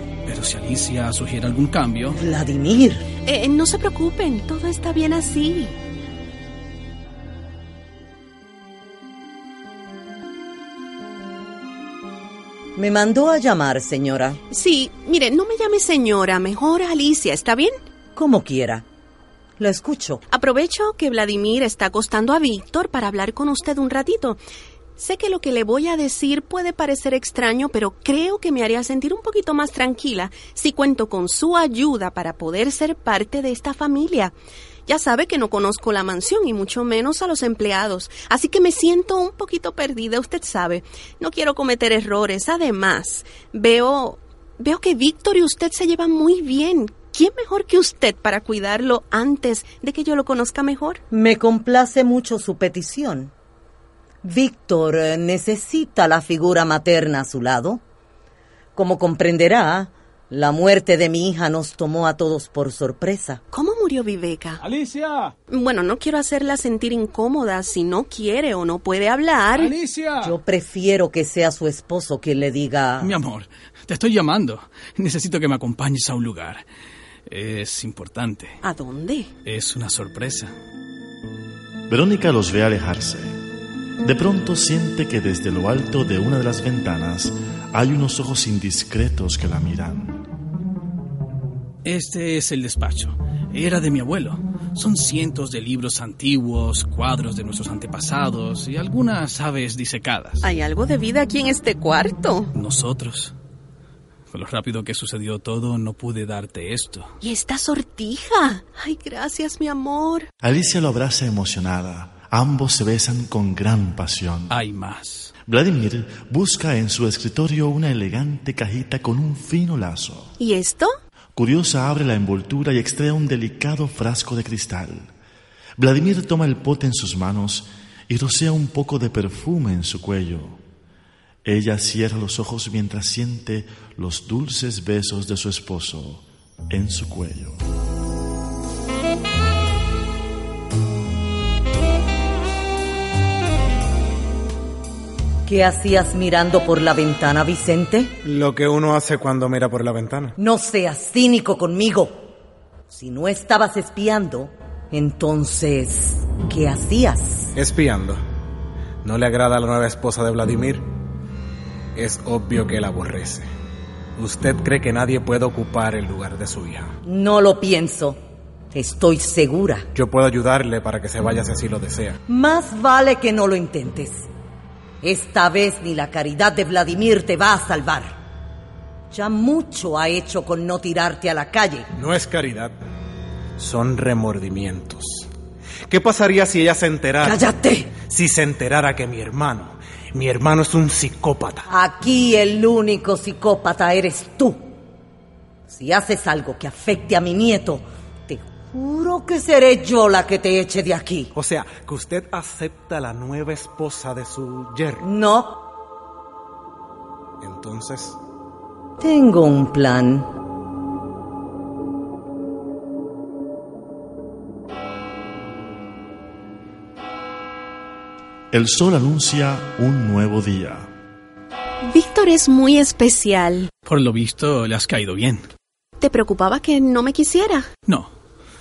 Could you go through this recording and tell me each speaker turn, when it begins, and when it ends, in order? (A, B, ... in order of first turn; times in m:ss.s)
0:00.2-0:02.2 A
0:02.2-0:03.1 B
0:03.2-0:05.8 C
0:12.8-0:14.4 B
0:14.5-0:17.8 C
0:18.1-0:18.8 B
0:19.6-0:20.2 B
0:20.3-0:24.4 C
0:25.0-0:34.3 C
0:34.8-0:51.0 C
0:51.1-0:53.3 B
0:54.2-0:57.8 B
0:58.7-1:03.4 B
1:03.5-1:04.6 C
1:04.6-1:05.3 A
1:05.5-1:09.7 C
1:09.6-1:10.3 A
1:10.2-1:13.1 B
1:13.0-1:16.6 A
1:17.3-1:18.6 A
1:18.6-1:19.3 C
1:19.4-1:20.5 A
1:21.9-1:23.4 D
1:24.0-1:30.2 D
1:31.8-1:40.5 A
1:40.4-1:42.5 C
1:42.5-1:43.3 A
1:44.3-1:47.1 A
1:47.2-1:50.3 C
1:50.4-1:54.5 D
1:54.5-1:55.3 A
1:55.5-2:00.3 D
2:00.4-2:00.9 C
2:01.3-2:05.1 D
2:05.8-2:10.6 D
2:11.4-2:17.6 D
2:25.4-2:28.1 B
2:28.2-2:30.4 E
2:30.4-2:32.2 B
2:32.9-2:37.5 B
2:37.6-2:38.2 E
2:39.0-2:40.8 E
2:41.9-2:43.5 E
2:44.2-2:47.0 E
2:47.0-2:48.2 B
2:48.7-2:49.9 B
2:49.9-2:52.2 E
2:52.3-2:54.3 B
2:55.0-2:58.2 B
2:59.1-3:01.9 B
3:02.0-3:02.7 E
3:03.6-3:05.3 E
3:05.9-3:07.4 E
3:07.2-3:07.9 B
3:08.0-3:11.6 E
3:11.7-3:14.6 B
3:15.7-3:21.3 B
3:21.3-3:25.1 E
3:25.0-3:25.6 B
3:27.4-3:28.2 E
3:29.0-3:30.3 B
3:38.5-3:40.9 D
3:41.8-3:43.7 C
3:43.8-3:45.4 A
3:46.0-3:47.7 C